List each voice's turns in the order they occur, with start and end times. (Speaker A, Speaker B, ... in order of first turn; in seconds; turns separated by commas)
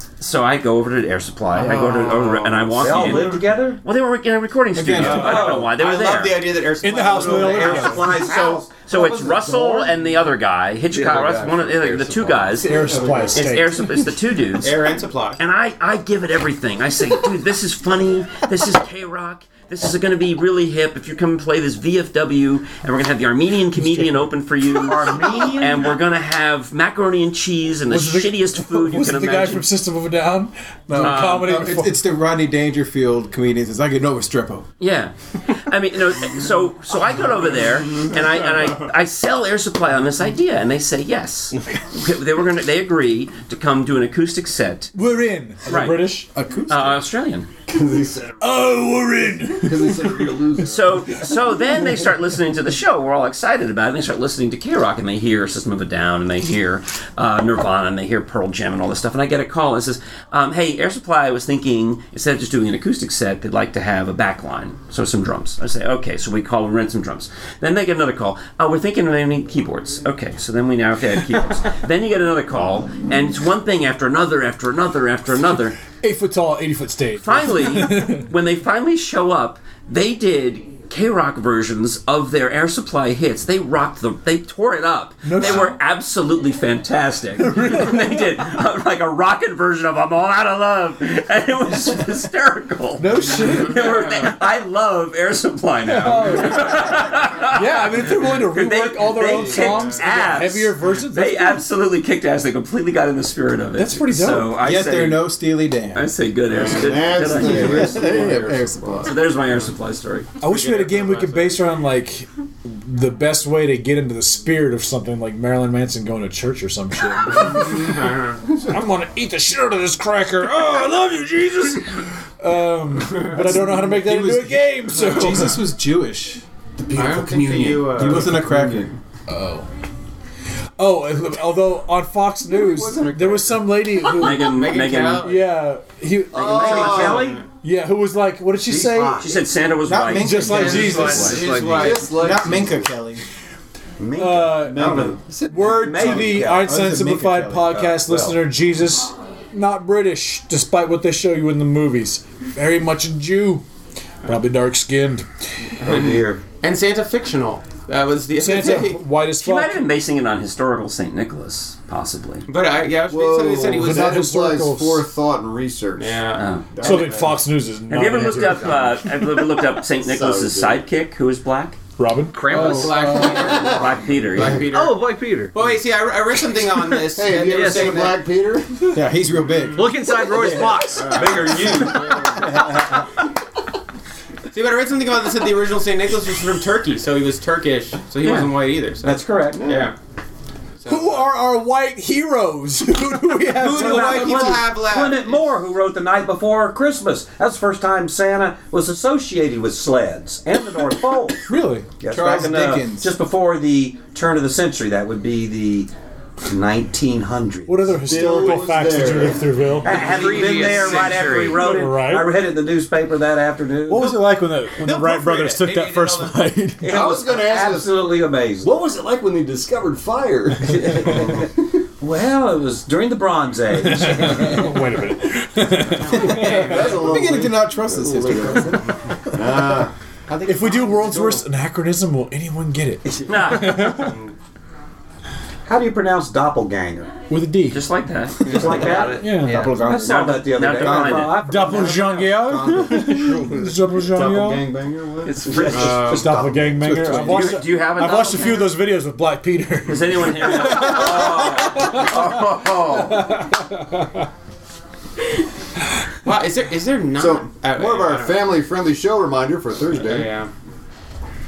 Speaker A: 0.2-6.7, Speaker B: 1.6-3.4, Speaker C: 2.8-3.8, Speaker D: 4.7-5.5, Speaker B: 4.9-8.3, Speaker C: 5.0-5.7, Speaker E: 6.8-8.1, Speaker C: 7.0-10.0, Speaker A: 8.1-12.8, Speaker F: 10.9-12.5, Speaker E: 12.6-13.9, Speaker G: 12.7-13.4, Speaker A: 13.3-29.7, Speaker B: 14.6-15.4, Speaker E: 23.8-24.3, Speaker C: 24.8-26.0, Speaker E: 27.9-32.0, Speaker D: 30.9-34.7, Speaker A: 31.0-31.6, Speaker A: 34.8-45.0, Speaker E: 44.9-46.3, Speaker A: 45.7-47.5, Speaker D: 46.3-47.0, Speaker G: 47.7-48.7, Speaker E: 48.4-50.5, Speaker G: 49.5-51.3, Speaker A: 50.6-75.8, Speaker E: 76.0-78.3, Speaker A: 77.2-105.3, Speaker E: 85.2-85.8, Speaker E: 87.4-88.2, Speaker E: 93.0-94.0, Speaker E: 95.8-101.6, Speaker E: 103.8-104.6, Speaker D: 104.6-106.1, Speaker A: 106.0-108.3, Speaker G: 106.5-109.2, Speaker D: 107.2-109.2, Speaker A: 109.0-110.3, Speaker E: 110.4-125.6, Speaker B: 110.4-111.6, Speaker B: 117.9-118.3, Speaker D: 123.2-126.4, Speaker E: 126.8-128.2, Speaker B: 126.9-128.5, Speaker G: 127.8-128.9, Speaker D: 127.9-128.9, Speaker E: 129.3-129.7, Speaker E: 130.8-134.6, Speaker G: 132.5-133.7, Speaker A: 134.1-135.3, Speaker B: 134.2-135.4, Speaker E: 135.2-139.3, Speaker G: 136.3-137.4, Speaker C: 136.4-137.4, Speaker B: 136.6-137.4, Speaker C: 138.6-139.5, Speaker A: 139.2-141.4, Speaker D: 139.8-143.2, Speaker E: 140.1-141.3, Speaker F: 140.5-142.2, Speaker G: 140.7-142.9, Speaker B: 141.3-142.0, Speaker C: 144.0-146.7, Speaker E: 144.2-153.7, Speaker G: 144.6-145.8, Speaker D: 146.4-147.9, Speaker C: 147.7-148.4, Speaker E: 154.2-155.3, Speaker C: 155.8-156.4, Speaker B: 155.8-159.1, Speaker E: 158.3-159.9, Speaker A: 159.3-162.5, Speaker B: 162.5-164.2, Speaker G: 163.0-167.4, Speaker E: 163.7-165.1, Speaker B: 166.0-167.3, Speaker A: 166.3-166.7, Speaker E: 166.8-168.9, Speaker A: 167.9-171.8, Speaker G: 170.0-170.8, Speaker E: 172.0-173.3, Speaker F: 172.3-173.6, Speaker B: 172.5-175.0, Speaker G: 173.0-174.6, Speaker A: 173.6-174.6, Speaker F: 174.6-175.6, Speaker B: 175.5-178.2, Speaker G: 177.1-178.9, Speaker F: 177.3-178.1, Speaker D: 178.9-179.9, Speaker F: 179.8-181.6, Speaker C: 180.3-183.0, Speaker B: 181.0-181.6, Speaker G: 181.0-182.5, Speaker B: 184.5-190.0, Speaker A: 188.2-188.5, Speaker C: 189.0-189.7, Speaker G: 189.5-189.9, Speaker B: 190.8-191.3, Speaker E: 190.9-194.6, Speaker C: 193.5-201.4, Speaker B: 193.6-195.5, Speaker E: 201.5-201.9, Speaker C: 202.0-205.9, Speaker D: 202.0-203.1, Speaker C: 206.4-207.9, Speaker E: 207.7-210.0, Speaker G: 208.0-209.7, Speaker C: 209.8-214.2, Speaker B: 209.9-211.6, Speaker F: 210.0-211.6, Speaker E: 211.4-212.4, Speaker E: 213.9-217.0, Speaker B: 214.8-216.5, Speaker C: 216.8-218.7, Speaker G: 216.8-221.6, Speaker C: 220.9-221.3, Speaker C: 222.0-224.7, Speaker E: 223.8-226.9, Speaker B: 225.9-226.9, Speaker G: 226.1-231.4, Speaker D: 226.5-229.8, Speaker E: 230.5-234.2, Speaker A: 233.2-234.2, Speaker B: 233.8-234.3, Speaker C: 235.7-237.1, Speaker E: 237.3-237.9, Speaker A: 237.7-239.2, Speaker C: 238.5-243.1, Speaker B: 238.5-239.1, Speaker E: 239.1-239.7, Speaker F: 239.3-239.8, Speaker D: 239.4-241.3, Speaker A: 239.9-241.5, Speaker E: 241.3-244.7, Speaker G: 242.5-246.1, Speaker A: 245.2-246.2, Speaker C: 245.4-246.9, Speaker B: 245.7-246.3, Speaker E: 246.0-252.2, Speaker D: 246.8-247.6, Speaker A: 247.1-248.8, Speaker A: 249.9-253.2, Speaker G: 250.9-252.7, Speaker E: 252.9-254.3, Speaker B: 256.2-258.6, Speaker G: 257.1-260.3, Speaker B: 259.9-260.5